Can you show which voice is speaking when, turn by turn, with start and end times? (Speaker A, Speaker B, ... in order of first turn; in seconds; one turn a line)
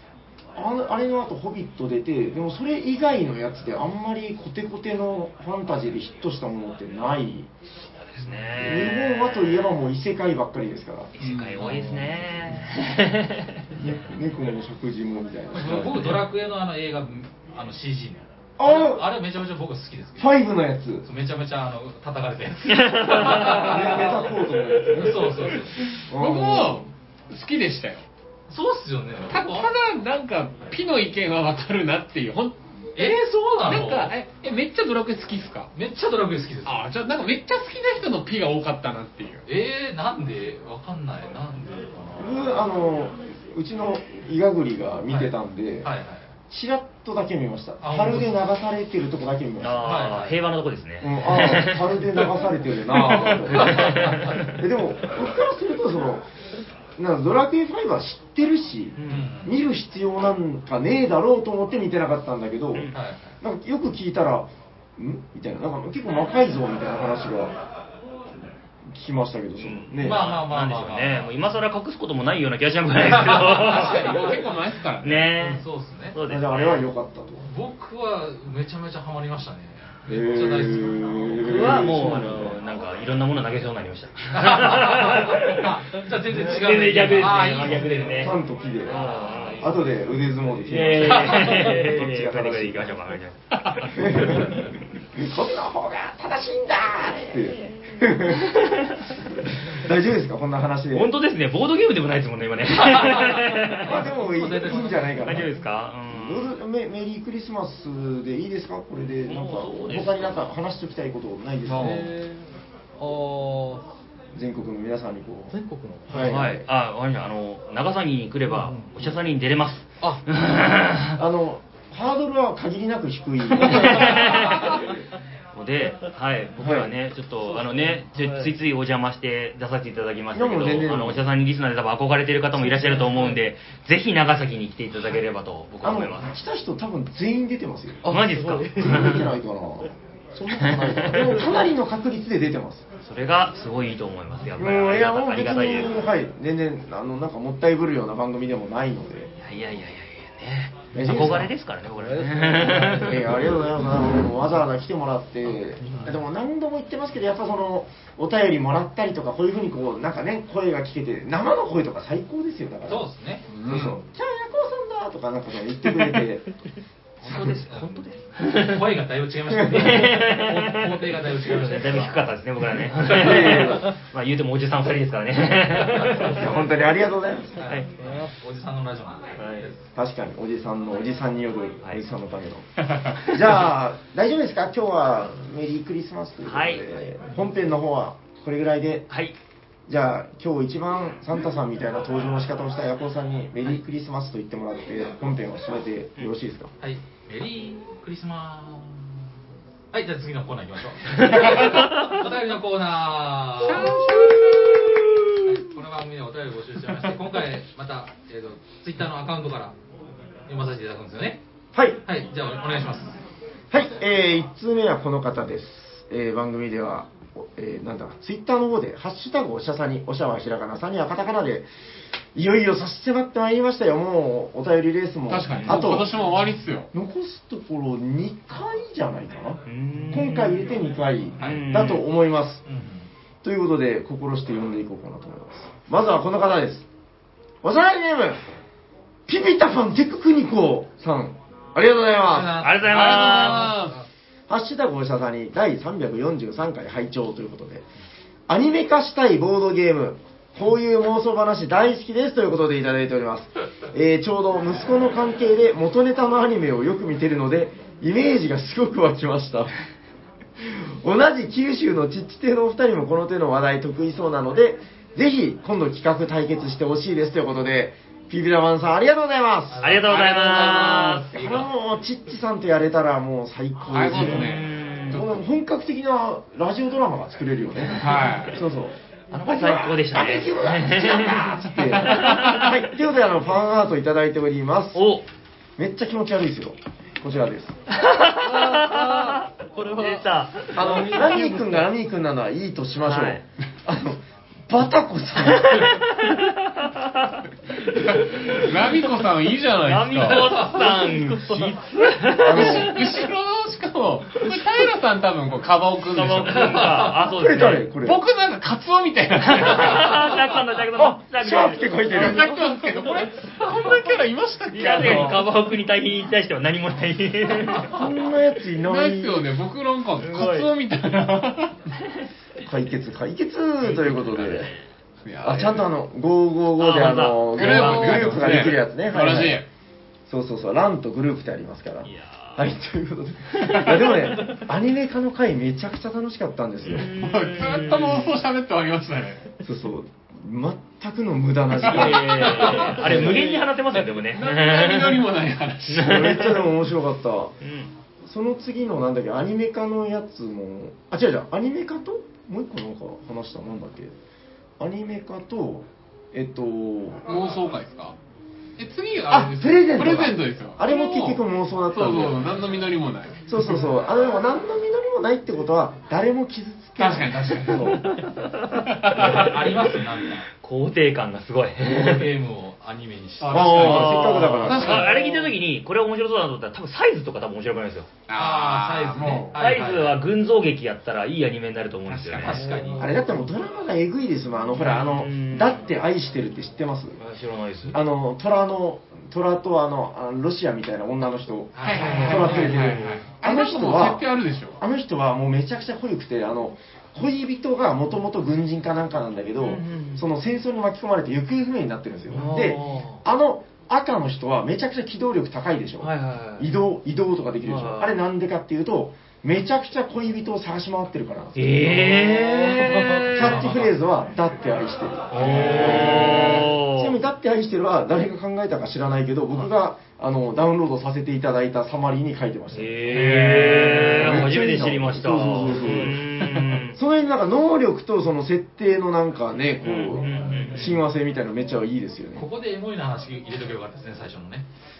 Speaker A: 0.5-7.5
Speaker B: 8.1-9.8
Speaker A: 8.6-11.1
Speaker B: 11.1-13.7
Speaker C: 11.2-12.1
Speaker D: 11.6-12.0
Speaker A: 13.8-16.2
Speaker D: 15.5-20.4
Speaker A: 18.6-19.1
Speaker A: 20.2-21.1
Speaker D: 21.0-24.2
Speaker B: 22.7-24.1
Speaker A: 23.4-25.5
Speaker D: 24.9-25.8
Speaker A: 26.1-26.9
Speaker C: 26.1-28.0
Speaker D: 28.5-29.7
Speaker C: 29.3-32.6
Speaker D: 33.0-34.1
Speaker C: 33.6-35.7
Speaker D: 35.7-36.8
Speaker C: 36.6-39.4
Speaker D: 39.5-42.5
Speaker A: 42.2-45.9
Speaker D: 45.8-46.3
Speaker A: 46.5-49.9
Speaker D: 47.8-48.3
Speaker B: 49.6-52.3
Speaker D: 49.8-50.4
Speaker A: 51.0-56.3
Speaker B: 52.9-54.5
Speaker D: 53.5-54.5
Speaker A: 57.0-62.9
Speaker B: 59.0-59.3
Speaker D: 59.0-59.5
Speaker D: 62.9-63.4
Speaker A: 63.4-67.5
Speaker A: 68.8-70.2
Speaker B: 69.6-74.2
Speaker D: 70.0-71.3
Speaker D: 73.0-74.4
Speaker C: 73.6-75.3
Speaker B: 75.0-76.8
Speaker D: 75.4-76.2
Speaker A: 76.2-77.5
Speaker D: 77.5-81.5
Speaker A: 80.1-82.6
Speaker B: 81.4-89.8
Speaker D: 84.3-88.3
Speaker A: 88.1-93.0
Speaker D: 89.0-89.6
Speaker B: 90.7-94.7
Speaker A: 93.9-98.8
Speaker B: 98.1-99.1
Speaker A: 99.4-101.1
Speaker B: 100.9-104.0
Speaker D: 102.7-105.5
Speaker A: 103.8-105.5
Speaker B: 105.2-106.5
Speaker A: 106.1-112.1
Speaker B: 109.2-110.5
Speaker C: 111.7-112.1
Speaker E: 111.8-113.8
Speaker A: 114.3-115.5
Speaker E: 115.5-116.3
Speaker A: 116.1-116.7
Speaker B: 116.1-121.2
Speaker E: 118.5-119.1
Speaker A: 121.1-124.8
Speaker B: 123.5-124.8
Speaker B: 125.5-136.3
Speaker A: 126.6-126.9
Speaker E: 127.4-128.5
Speaker A: 130.3-131.2
Speaker E: 132.6-133.4
Speaker A: 135.8-138.1
Speaker E: 138.0-139.2
Speaker B: 138.0-139.3
Speaker A: 138.8-142.8
Speaker B: 140.5-141.4
Speaker E: 141.1-141.6
Speaker B: 143.0-145.9
Speaker A: 144.6-149.3
Speaker B: 149.4-153.5
Speaker A: 150.9-151.5
Speaker E: 151.9-153.4
Speaker A: 153.0-163.1
Speaker E: 155.8-156.1
Speaker D: 162.9-163.4
Speaker C: 163.5-164.0
Speaker A: 163.6-166.4
Speaker B: 167.2-168.9
Speaker D: 167.2-172.3
Speaker A: 169.6-169.8
Speaker B: 169.6-176.5
Speaker A: 173.0-173.9
Speaker D: 175.8-176.5
Speaker A: 176.2-177.7
Speaker D: 177.6-179.8
Speaker B: 179.4-179.7
Speaker A: 179.9-189.1
Speaker B: 186.4-186.8
Speaker B: 189.1-189.3
Speaker A: 189.9-196.7
Speaker D: 196.8-199.1
Speaker D: 199.9-204.0
Speaker B: 201.3-202.1
Speaker C: 203.6-205.0
Speaker D: 205.4-209.7
Speaker D: 210.5-211.4
Speaker A: 211.7-212.0
Speaker D: 212.1-213.2
Speaker A: 213.7-221.7
Speaker A: 222.3-226.1
Speaker C: 225.3-226.9
Speaker A: 226.9-232.6
Speaker B: 229.7-230.7
Speaker B: 231.4-232.0
Speaker D: 232.7-233.1
Speaker A: 233.4-236.8
Speaker A: 237.6-238.4
Speaker A: 239.3-242.7
Speaker D: 242.3-244.0
Speaker B: 242.6-243.8
Speaker C: 242.8-244.0
Speaker A: 244.5-247.8
Speaker A: 248.5-259.7
Speaker A: 260.6-269.9
Speaker D: 269.7-270.2
Speaker B: 269.8-271.6
Speaker C: 270.0-271.5
Speaker A: 271.3-285.0
Speaker C: 273.9-275.3
Speaker B: 274.1-275.2
Speaker C: 277.9-278.6
Speaker B: 279.3-282.7
Speaker C: 282.0-282.7
Speaker B: 284.9-285.2
Speaker A: 285.8-287.8
Speaker B: 287.9-291.4
Speaker E: 288.4-291.8
Speaker A: 290.7-295.9
Speaker B: 293.0-293.4
Speaker B: 295.4-299.1
Speaker C: 297.9-300.7
Speaker B: 299.8-303.3
Speaker D: 300.5-300.9
Speaker E: 300.6-301.8
Speaker C: 302.4-307.1
Speaker A: 302.4-303.0
Speaker B: 306.1-307.9
Speaker D: 306.7-307.2
Speaker A: 307.2-308.2
Speaker C: 308.0-310.4
Speaker B: 309.5-312.4
Speaker A: 310.9-312.5
Speaker C: 312.1-315.4
Speaker B: 314.7-318.0
Speaker A: 315.0-315.3
Speaker A: 317.9-319.5
Speaker C: 318.8-321.8
Speaker B: 320.2-320.7
Speaker A: 322.6-324.7
Speaker B: 323.8-324.8
Speaker C: 325.2-325.9
Speaker A: 325.4-329.6
Speaker B: 326.8-328.7
Speaker C: 327.5-329.6
Speaker A: 330.3-337.1
Speaker B: 332.0-332.7
Speaker B: 333.5-334.1
Speaker B: 336.8-338.4
Speaker C: 337.0-339.4
Speaker A: 339.6-343.5
Speaker B: 341.8-345.2
Speaker C: 341.8-343.3
Speaker E: 343.2-343.6
Speaker C: 343.9-346.2
Speaker B: 345.9-346.7
Speaker A: 346.0-347.5
Speaker B: 347.6-347.9
Speaker A: 348.2-354.1
Speaker A: 354.8-357.4
Speaker C: 357.3-358.1
Speaker C: 358.8-363.5
Speaker A: 359.3-362.5
Speaker A: 363.5-368.2
Speaker C: 367.0-368.1
Speaker B: 368.0-369.4
Speaker C: 368.8-369.6
Speaker D: 369.1-370.5
Speaker B: 370.6-372.3
Speaker D: 371.8-374.2
Speaker C: 373.4-375.3
Speaker A: 373.5-375.1
Speaker B: 373.7-378.1
Speaker D: 374.9-375.2
Speaker C: 378.3-379.6
Speaker D: 378.3-380.2
Speaker B: 379.5-382.6
Speaker C: 382.1-382.6
Speaker D: 382.4-383.2
Speaker E: 382.5-383.1
Speaker A: 383.0-387.2
Speaker B: 384.8-385.8
Speaker B: 387.2-388.0
Speaker A: 387.9-394.2
Speaker D: 391.7-392.7
Speaker C: 391.8-394.8
Speaker B: 391.9-393.1
Speaker A: 394.8-426.2
Speaker B: 399.6-400.2
Speaker B: 402.3-403.2
Speaker B: 406.0-406.7
Speaker B: 407.6-408.2
Speaker B: 411.5-413.8
Speaker E: 412.9-413.3
Speaker D: 413.4-413.9
Speaker B: 415.3-417.2
Speaker B: 422.7-427.0
Speaker C: 426.0-426.8
Speaker A: 426.9-432.4
Speaker B: 429.8-430.9
Speaker D: 432.4-434.6